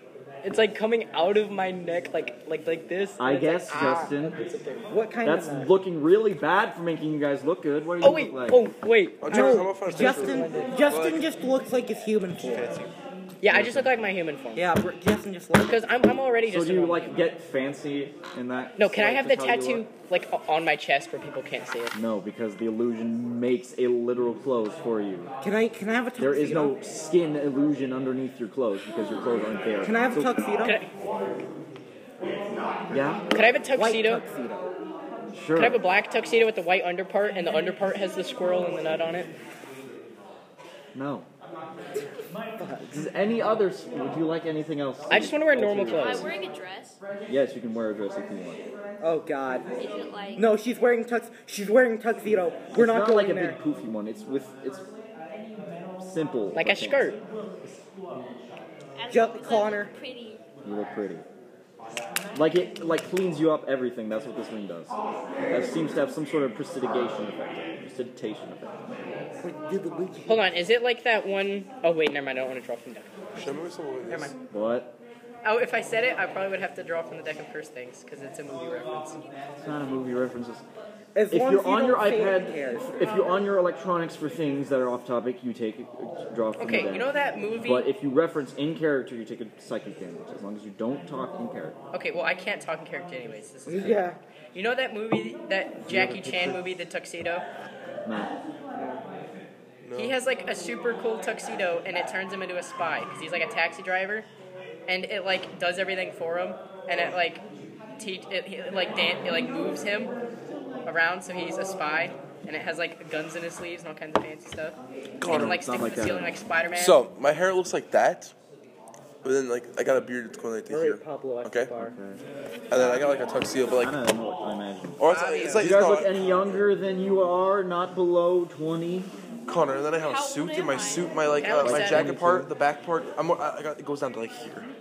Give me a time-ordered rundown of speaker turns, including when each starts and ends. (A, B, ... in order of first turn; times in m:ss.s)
0:00.4-0:04.9 A
0:03.2-0:04.4 B
0:04.9-0:05.7 C
0:05.2-0:08.7 B
0:08.0-0:10.7 A
0:09.2-0:11.3 D
0:09.3-0:12.7 C
0:12.4-0:12.9 D
0:13.4-0:14.7 A
0:13.5-0:14.0 B
0:14.6-0:15.9 C
0:15.6-0:17.2 A
0:16.5-0:19.9 B
0:18.8-0:22.0 A
0:21.9-0:25.3 B
0:25.4-0:26.8 C
0:26.2-0:30.4 B
0:29.8-0:30.8 C
0:30.6-0:30.9 A
0:32.9-0:33.3 B
0:33.3-0:34.2 A
0:33.7-0:34.7 C
0:35.3-0:35.8 B
0:35.6-0:39.3 A
0:40.9-0:41.3 B
0:42.6-0:42.9 C
0:42.9-0:46.3 B
0:45.1-0:46.3 A
0:46.0-0:47.0 E
0:47.3-0:48.6 B
0:49.0-0:49.7 C
0:49.8-0:50.5 E
0:50.4-0:53.6 C
0:52.7-0:54.8 B
0:56.0-0:57.8 B
0:56.5-0:57.2 A
0:59.0-1:00.4 E
0:59.1-0:59.9 C
1:00.6-1:01.2 B
1:02.3-1:04.9 B
1:05.5-1:08.9 B
1:09.4-1:10.4 C
1:10.3-1:13.5 A
1:13.4-1:14.3 D
1:14.1-1:14.3 A
1:14.5-1:15.0 B
1:15.4-1:19.2 A
1:19.6-1:20.6 B
1:21.2-1:23.3 C
1:21.3-1:31.8 B
1:26.6-1:27.9 A
1:31.9-1:37.4 A
1:33.7-1:34.2 C
1:35.8-1:36.6 B
1:38.0-1:38.3 B
1:38.8-1:39.0 C
1:39.8-1:40.2 D
1:40.0-1:44.3 A
1:44.9-1:47.4 A
1:48.0-1:50.1 A
1:50.9-1:57.1 A
1:55.2-1:55.6 D
1:55.3-1:56.4 B
1:56.8-1:58.3 D
1:59.2-2:01.7 D
2:00.7-2:01.9 C
2:01.8-2:02.2 B
2:02.7-2:04.0 D
2:03.7-2:09.1 B
2:05.0-2:06.5 D
2:05.1-2:05.6 A
2:09.5-2:14.7 D
2:10.0-2:11.7 E
2:11.4-2:12.1 A
2:11.6-2:12.5 B